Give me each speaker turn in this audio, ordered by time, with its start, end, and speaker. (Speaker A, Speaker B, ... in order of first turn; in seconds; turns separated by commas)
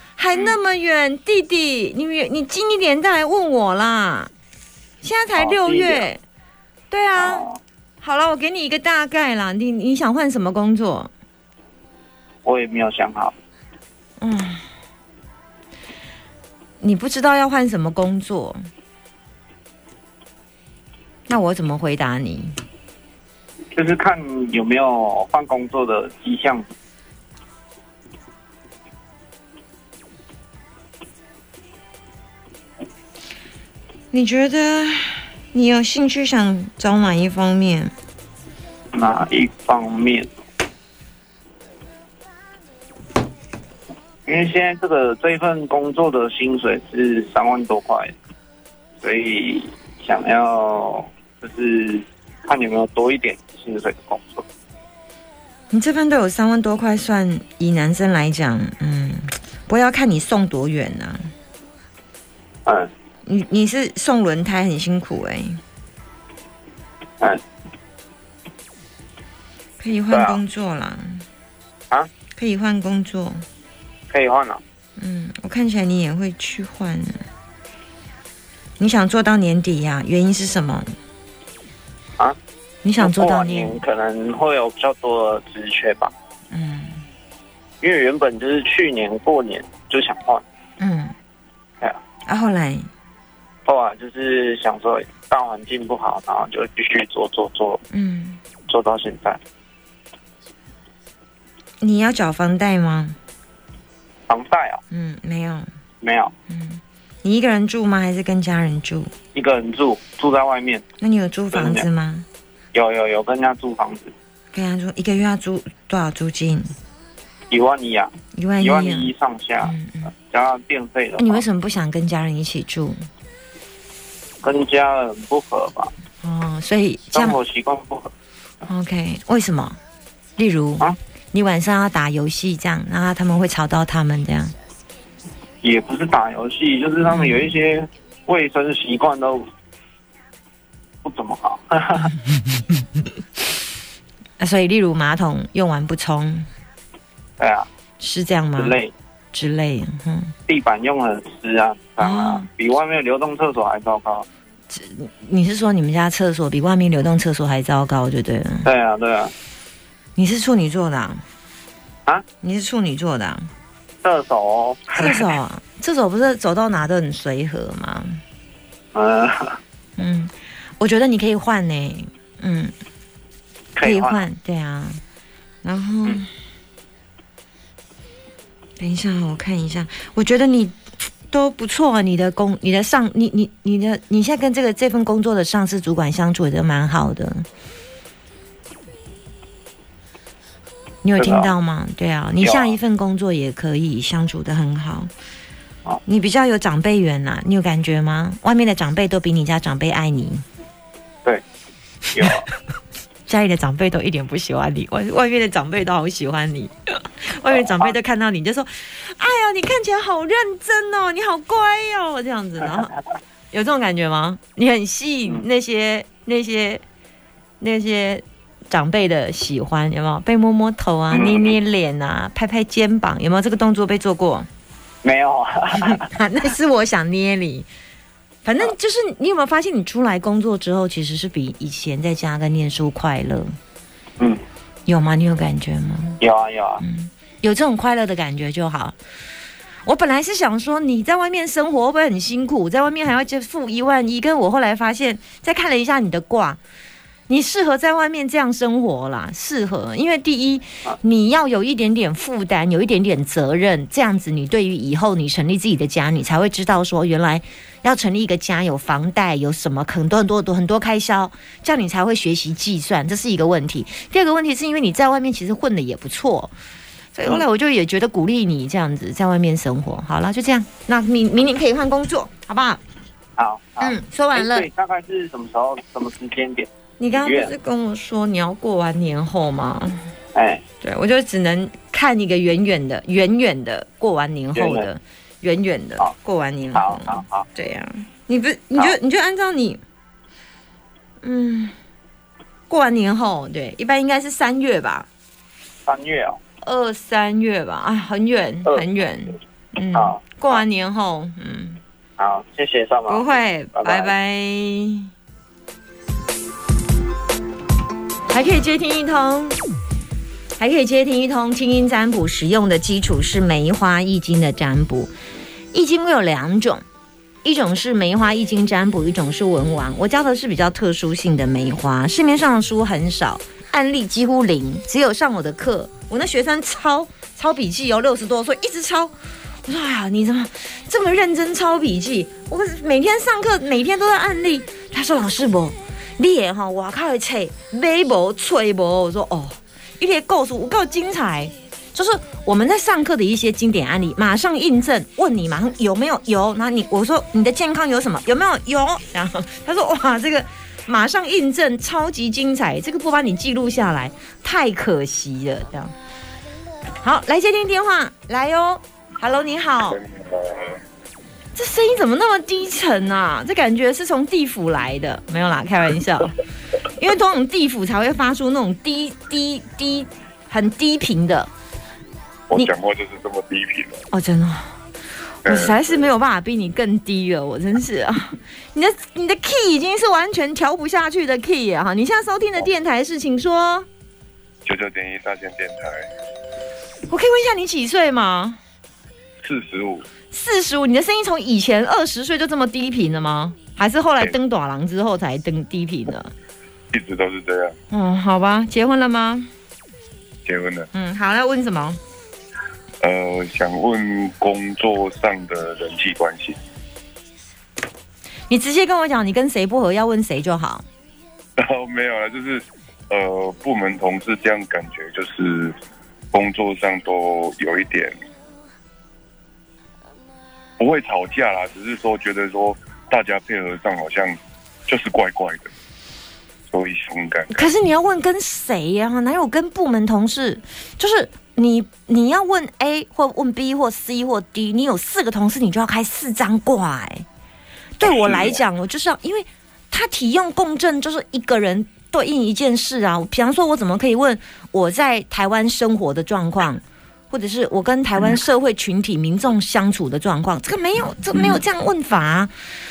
Speaker A: 0.2-4.3, Speaker B: 0.3-0.6, Speaker A: 5.0-6.2, Speaker B: 5.3-6.1, Speaker A: 6.9-7.4, Speaker B: 7.1-7.6, Speaker A: 8.0-11.1, Speaker B: 12.4-13.3, Speaker A: 14.2-14.6, Speaker A: 16.8-18.6, Speaker A: 21.3-22.5, Speaker B: 23.7-26.7, Speaker A: 34.1-37.9, Speaker B: 38.9-40.4, Speaker B: 44.2-48.1, Speaker B: 49.0-54.4, Speaker A: 55.7-61.3, Speaker B: 62.6-62.9, Speaker A: 63.2-65.6, Speaker A: 69.8-71.2, Speaker B: 70.1-70.4, Speaker A: 72.3-73.4, Speaker B: 74.1-74.6, Speaker A: 75.0-77.2, Speaker A: 78.8-80.8, Speaker A: 82.8-83.8, Speaker B: 83.0-86.1, Speaker A: 86.5-87.0, Speaker B: 87.8-90.4, Speaker A: 90.8-91.1, Speaker A: 92.2-92.9, Speaker B: 93.6-97.8, Speaker A: 97.9-98.4, Speaker B: 98.7-99.4, Speaker A: 101.8-103.2, Speaker B: 104.3-104.8, Speaker A: 104.9-105.7, Speaker B: 106.0-106.3, Speaker A: 106.5-109.1, Speaker B: 109.3-110.8, Speaker A: 111.0-112.3, Speaker B: 111.5-111.9, Speaker B: 112.7-114.1, Speaker A: 114.5-116.7, Speaker B: 117.5-121.4, Speaker A: 118.3-120.1, Speaker A: 121.2-123.0, Speaker B: 124.4-125.9, Speaker A: 126.2-127.4, Speaker B: 127.1-128.1, Speaker A: 128.7-129.8, Speaker A: 130.4-134.5, Speaker B: 135.6-139.4, Speaker A: 137.0-137.5, Speaker B: 141.0-142.1, Speaker A: 144.4-146.5, Speaker B: 147.4-147.7, Speaker A: 148.0-148.8, Speaker B: 148.6-148.9, Speaker A: 149.3-150.3, Speaker B: 150.5-154.2, Speaker A: 152.0-152.5, Speaker A: 154.7-158.7, Speaker B: 158.6-159.3, Speaker A: 160.2-161.2, Speaker A: 162.4-163.5, Speaker B: 164.0-165.3, Speaker A: 164.9-168.2, Speaker B: 168.9-169.6, Speaker A: 170.0-172.7, Speaker B: 173.7-174.2, Speaker A: 173.8-175.0, Speaker A: 175.6-176.3, Speaker A: 178.8-187.4, Speaker A: 191.0-195.1, Speaker B: 191.2-191.5, Speaker B: 192.4-192.8, Speaker A: 196.1-200.4, Speaker B: 202.1-202.5, Speaker A: 203.3-212.9, Speaker B: 207.5-208.0, Speaker A: 213.5-216.8, Speaker A: 217.6-224.5, Speaker B: 221.1-221.6, Speaker B: 225.0-226.1, Speaker A: 225.8-227.7, Speaker A: 228.4-233.5, Speaker A: 234.9-236.2, Speaker B: 236.2-236.8, Speaker A: 236.8-238.9, Speaker A: 239.8-246.6, Speaker A: 247.3-266.5, Speaker A: 267.1-272.8, Speaker B: 273.4-277.5, Speaker A: 273.8-274.7, Speaker A: 277.0-280.0, Speaker B: 280.3-280.6, Speaker A: 280.8-289.8, Speaker B: 284.5-284.9, Speaker B: 286.7-287.5, Speaker B: 288.7-289.0, Speaker A: 291.2-291.7, Speaker A: 292.7-295.1, Speaker B: 295.9-296.4, Speaker A: 296.6-301.8, Speaker B: 298.6-299.4, Speaker B: 299.9-300.6, Speaker B: 302.2-304.1, Speaker A: 303.1-305.1, Speaker A: 308.3-309.6, Speaker A: 310.6-315.1, Speaker A: 315.7-316.8, Speaker A: 317.4-355.9, Speaker A: 357.0-360.0, Speaker C: 359.9-360.8, Speaker A: 361.5-366.3, Speaker A: 366.9-371.5, Speaker C: 372.5-374.1, Speaker A: 374.1-374.8, Speaker A: 375.4-383.9, Speaker C: 375.4-376.1, Speaker C: 384.6-386.1, Speaker A: 387.1-388.6, Speaker C: 389.4-390.1, Speaker A: 390.3-396.3, Speaker C: 396.9-397.7, Speaker A: 397.9-399.5, Speaker C: 400.4-400.9, Speaker A: 400.9-402.0, Speaker C: 403.0-406.6, Speaker A: 408.5-410.8, Speaker C: 411.6-415.7, Speaker C: 416.3-418.1, Speaker C: 420.8-425.7, Speaker C: 426.7-427.7, Speaker A: 427.5-437.2, Speaker A: 438.0-452.5, Speaker C: 438.0-438.6